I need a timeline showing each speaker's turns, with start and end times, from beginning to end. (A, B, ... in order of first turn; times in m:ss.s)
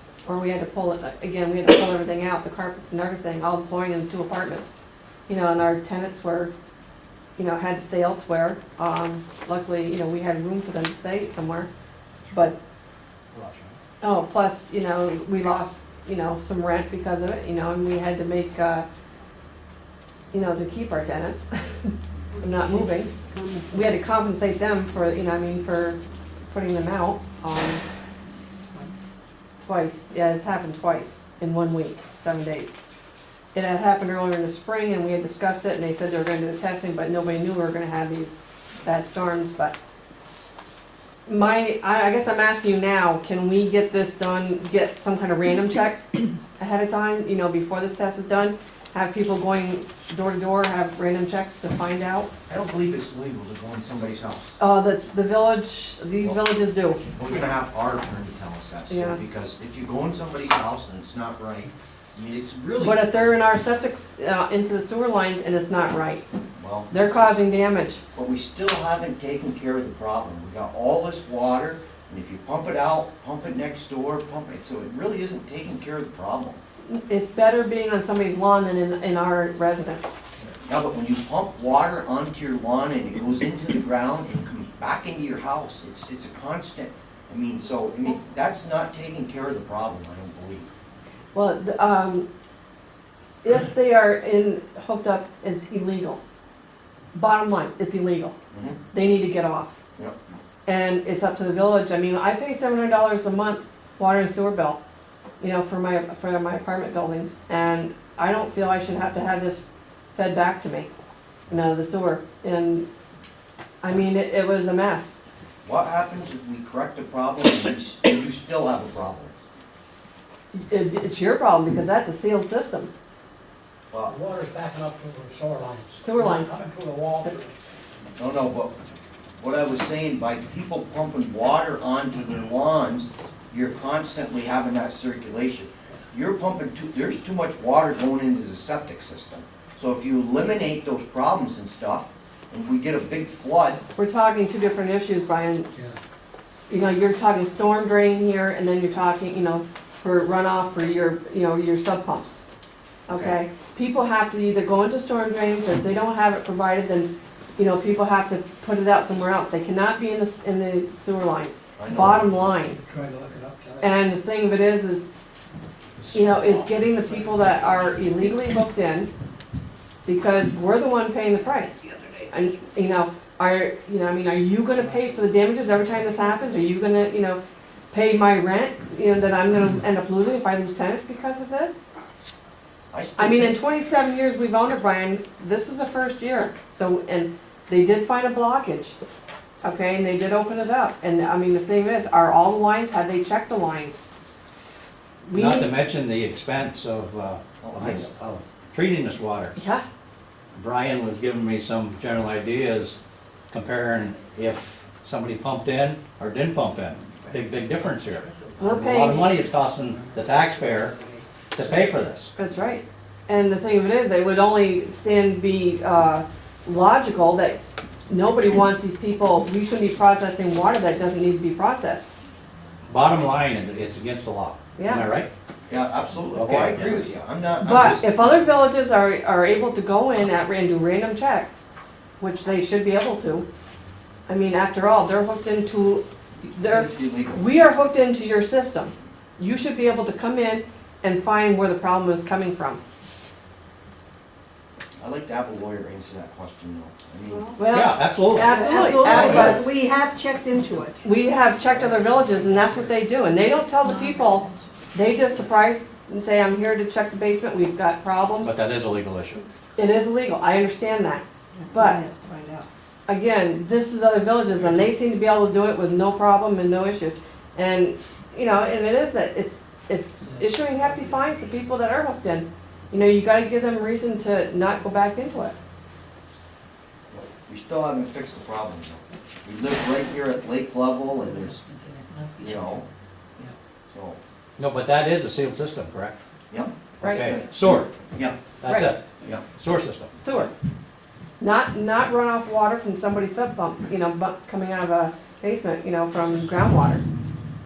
0:00.2-0:04.7 A
0:05.3-0:06.5 A
0:07.4-0:11.7 A
0:13.3-0:13.8 B
0:14.0-0:18.8 A
0:20.3-0:23.1 A
0:22.3-0:23.7 C
0:23.7-0:26.0 A
0:26.5-0:27.8 A
0:28.7-0:29.0 C
0:29.6-0:32.8 A
0:33.5-0:39.7 A
0:41.3-0:46.0 A
0:46.6-0:52.3 A
0:52.5-0:54.6 D
0:54.6-0:57.0 A
0:57.0-1:03.0 D
0:58.9-0:59.2 A
1:02.8-1:06.2 A
1:06.6-1:07.4 D
1:06.9-1:08.0 A
1:08.1-1:16.6 D
1:16.9-1:20.2 A
1:20.6-1:30.7 D
1:31.3-1:32.3 A
1:33.4-1:36.2 A
1:37.1-1:38.3 A
1:38.5-1:38.8 D
1:38.9-1:39.8 A
1:40.6-1:44.8 A
1:45.4-1:50.9 A
1:51.5-1:52.9 A
1:53.8-1:55.2 A
1:55.6-1:59.3 D
2:00.5-2:02.9 A
2:03.9-2:04.2 D
2:04.1-2:07.5 E
2:06.0-2:06.6 A
2:08.2-2:08.8 D
2:09.4-2:23.8 D
2:24.0-2:25.7 A
2:26.7-2:32.4 A
2:33.1-2:33.4 D
2:33.1-2:42.8 A
2:41.8-2:42.3 D
2:42.8-2:43.9 E
2:43.8-2:45.1 A
2:46.0-2:48.2 E
2:46.1-2:49.1 A
2:50.0-2:57.4 A
2:57.9-3:01.8 A
3:02.9-3:03.5 D
3:03.2-3:09.0 A
3:09.6-3:14.0 A
3:15.2-3:15.7 A
3:15.3-3:19.5 B
3:17.6-3:18.1 D
3:19.6-3:19.8 A
3:20.5-3:23.0 B
3:23.5-3:30.9 B
3:28.2-3:28.8 E
3:28.6-3:29.3 A
3:29.9-3:31.7 E
3:31.5-3:32.3 B
3:32.4-3:42.0 A
3:42.9-3:45.3 B
3:44.8-3:45.1 A
3:45.7-3:48.4 D
3:46.3-3:47.0 B
3:47.6-3:51.6 A
3:52.2-3:53.4 A
3:54.3-4:02.8 A
3:56.6-3:57.5 D
4:05.0-4:07.4 D
4:07.3-4:07.6 C
4:07.6-4:09.6 A
4:07.7-4:09.5 B
4:08.4-4:11.0 C
4:08.8-4:09.6 D
4:11.0-4:18.5 A
4:11.7-4:12.9 E
4:13.8-4:14.6 C
4:18.4-4:19.4 B
4:19.8-4:22.0 A
4:21.5-4:22.7 C
4:23.1-4:35.5 A
4:37.1-4:41.6 D
4:41.0-4:42.8 C
4:42.4-4:42.8 D
4:43.9-4:44.2 D
4:44.6-4:46.1 B
4:46.5-4:48.4 D
4:47.0-4:47.9 B
4:47.0-4:47.3 A
4:48.6-4:50.3 B
4:48.6-4:48.9 A
4:50.2-4:50.5 A
4:51.4-4:57.0 A